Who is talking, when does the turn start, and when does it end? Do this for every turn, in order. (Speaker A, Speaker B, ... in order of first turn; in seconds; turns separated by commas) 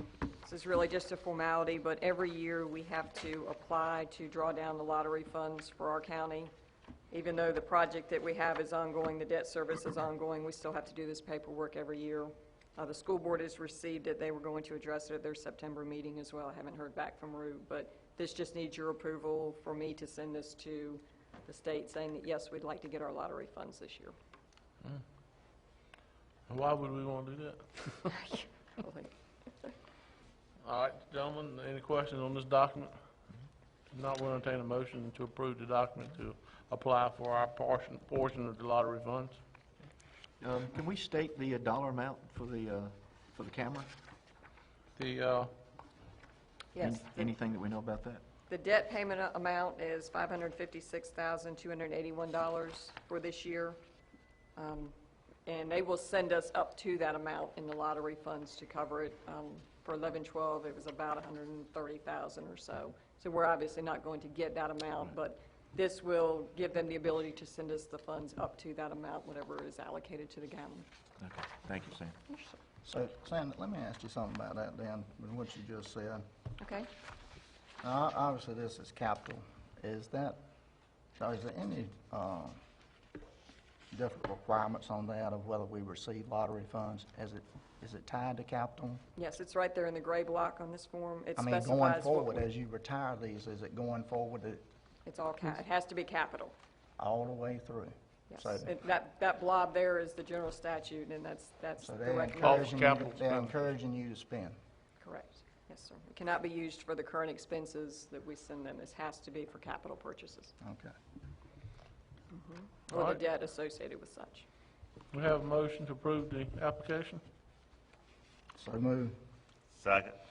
Speaker A: 0.4-6.5, Speaker A: 7.1-24.1, Speaker B: 26.5-28.1, Speaker A: 28.0-29.7, Speaker B: 30.6-33.0, Speaker B: 33.9-39.4, Speaker C: 40.4-43.9, Speaker B: 45.0-45.5, Speaker A: 46.7-47.3, Speaker C: 46.8-48.2, Speaker A: 48.5-53.8, Speaker A: 54.5-54.9, Speaker A: 55.5-70.8, Speaker C: 71.2-72.2, Speaker A: 72.3-72.6, Speaker D: 72.8-76.2, Speaker A: 76.6-76.9, Speaker D: 77.8-80.4, Speaker D: 81.1-82.6, Speaker D: 83.9-89.0, Speaker A: 89.2-92.5, Speaker D: 91.3-94.6, Speaker A: 95.0-96.5, Speaker D: 97.0-98.7, Speaker A: 98.3-102.8, Speaker D: 101.8-104.5, Speaker B: 102.4-103.6, Speaker A: 105.0-110.5, Speaker D: 110.6-110.9, Speaker A: 112.3-114.4, Speaker B: 112.9-113.2, Speaker B: 115.1-117.2, Speaker D: 118.5-119.1